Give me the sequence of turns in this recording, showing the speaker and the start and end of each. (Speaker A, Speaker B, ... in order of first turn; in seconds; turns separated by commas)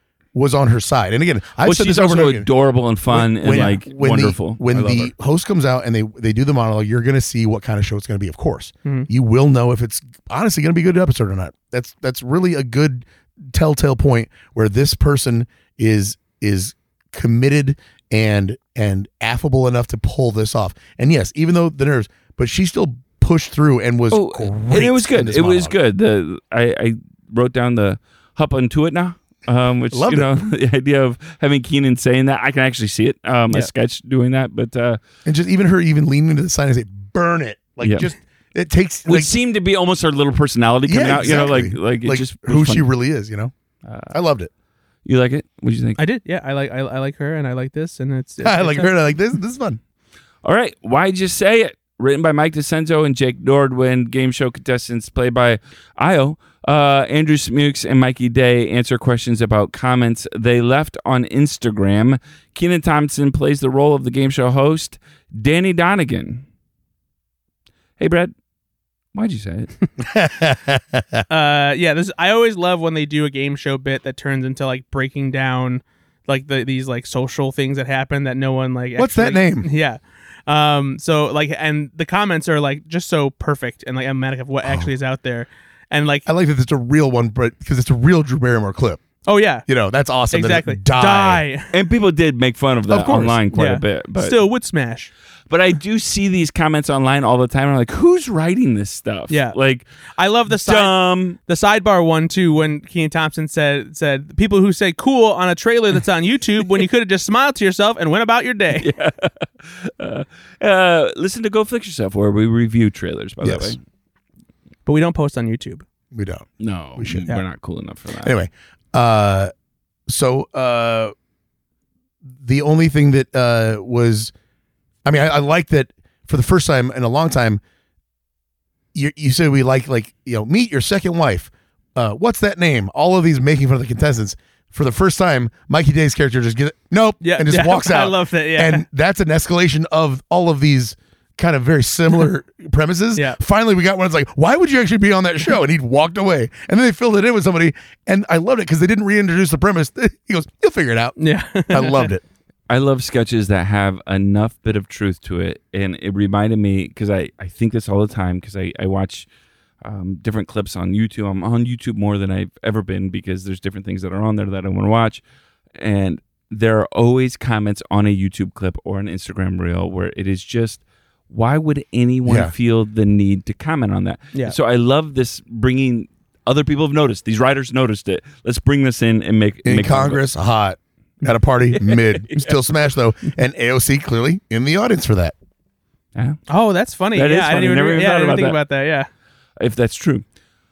Speaker A: 0.3-2.5, Speaker B: 1.6-5.1, Speaker A: 3.1-25.8, Speaker C: 3.5-3.8, Speaker B: 24.1-35.0, Speaker A: 29.9-30.4, Speaker A: 35.2-39.3, Speaker B: 37.8-38.1, Speaker B: 39.1-42.9, Speaker A: 40.9-43.5, Speaker B: 43.9-44.1, Speaker A: 44.1-44.5, Speaker B: 45.0-46.0, Speaker C: 46.0-48.9, Speaker A: 48.4-49.8, Speaker B: 50.4-66.4, Speaker B: 68.0-68.3, Speaker B: 69.1-69.7, Speaker A: 70.0-71.2, Speaker C: 71.3-86.3, Speaker A: 79.0-79.7, Speaker A: 84.6-84.9, Speaker A: 86.3-89.0, Speaker C: 89.3-89.7, Speaker A: 89.7-91.4, Speaker C: 90.3-91.7, Speaker B: 91.7-94.4, Speaker C: 92.9-95.1, Speaker B: 95.5-99.9, Speaker C: 99.3-99.6, Speaker C: 100.2-108.9, Speaker B: 100.5-101.4, Speaker B: 108.8-113.8, Speaker A: 113.4-113.8, Speaker C: 114.9-115.8, Speaker A: 116.1-117.3, Speaker B: 116.6-118.3, Speaker A: 118.2-119.5, Speaker A: 120.1-121.1, Speaker A: 122.4-124.3, Speaker A: 125.0-127.6, Speaker A: 128.9-152.2, Speaker C: 137.2-138.8, Speaker C: 151.2-152.1, Speaker B: 152.7-159.3, Speaker B: 159.8-165.2, Speaker B: 165.8-180.2, Speaker A: 172.2-172.5, Speaker A: 179.6-185.3, Speaker B: 181.8-182.5, Speaker B: 186.2-186.4, Speaker C: 186.5-189.1, Speaker B: 187.2-188.6, Speaker B: 189.6-190.2